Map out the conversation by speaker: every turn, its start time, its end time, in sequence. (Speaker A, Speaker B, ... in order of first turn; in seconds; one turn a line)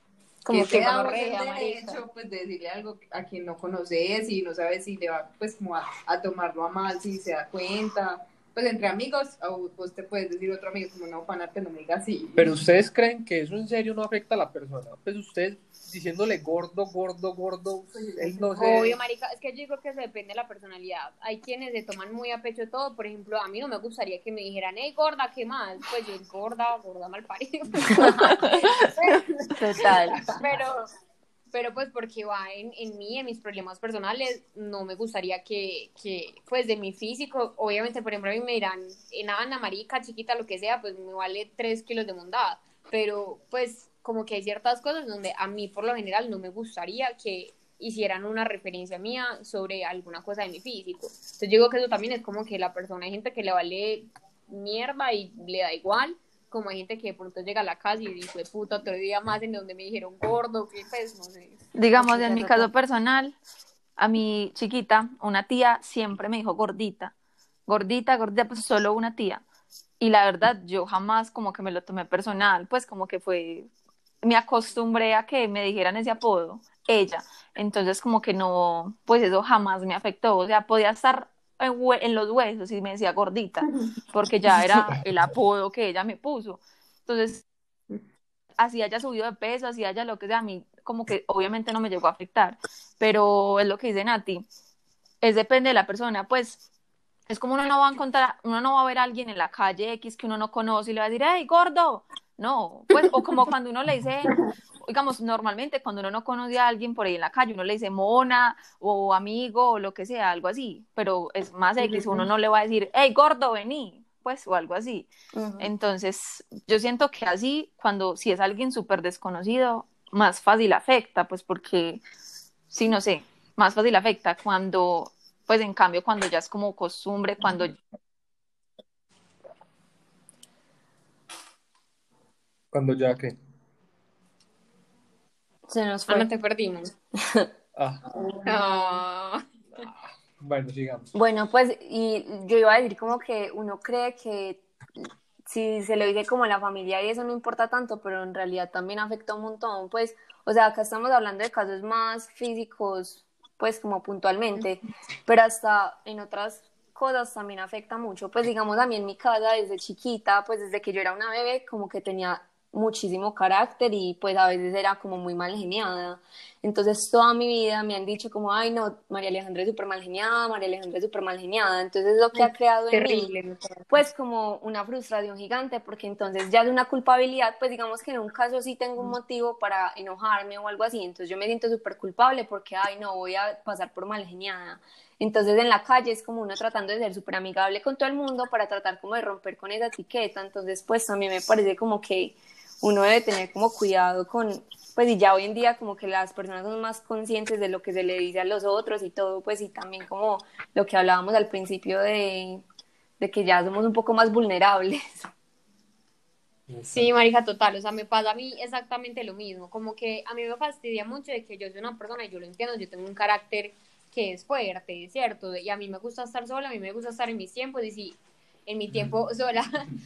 Speaker A: 0.5-0.9
Speaker B: 0.5-2.0
Speaker C: 0.5-12.6
Speaker D: 12.4-18.9
Speaker C: 17.9-18.9
Speaker B: 18.5-29.5
Speaker A: 27.9-28.3
Speaker E: 29.6-30.3
Speaker A: 29.8-30.1
Speaker B: 30.2-30.9
Speaker B: 31.5-61.6
Speaker E: 61.8-63.4
Speaker A: 62.0-62.7
Speaker E: 64.0-67.1
Speaker E: 67.7-69.4
Speaker E: 70.0-73.7
Speaker E: 74.2-87.4
Speaker E: 88.6-94.5
Speaker E: 95.2-96.6
Speaker E: 97.3-104.3
Speaker E: 104.8-122.0
Speaker A: 111.9-112.2
Speaker A: 115.3-115.7
Speaker E: 122.7-127.8
Speaker D: 132.7-133.4
Speaker A: 135.7-136.3
Speaker B: 136.1-136.9
Speaker A: 137.2-137.5
Speaker D: 137.8-138.1
Speaker B: 138.4-139.9
Speaker D: 139.8-141.1
Speaker A: 141.1-173.3
Speaker B: 172.3-173.8
Speaker A: 173.9-202.6
Speaker A: 203.2-205.3
Speaker D: 206.7-207.1
Speaker B: 206.9-219.7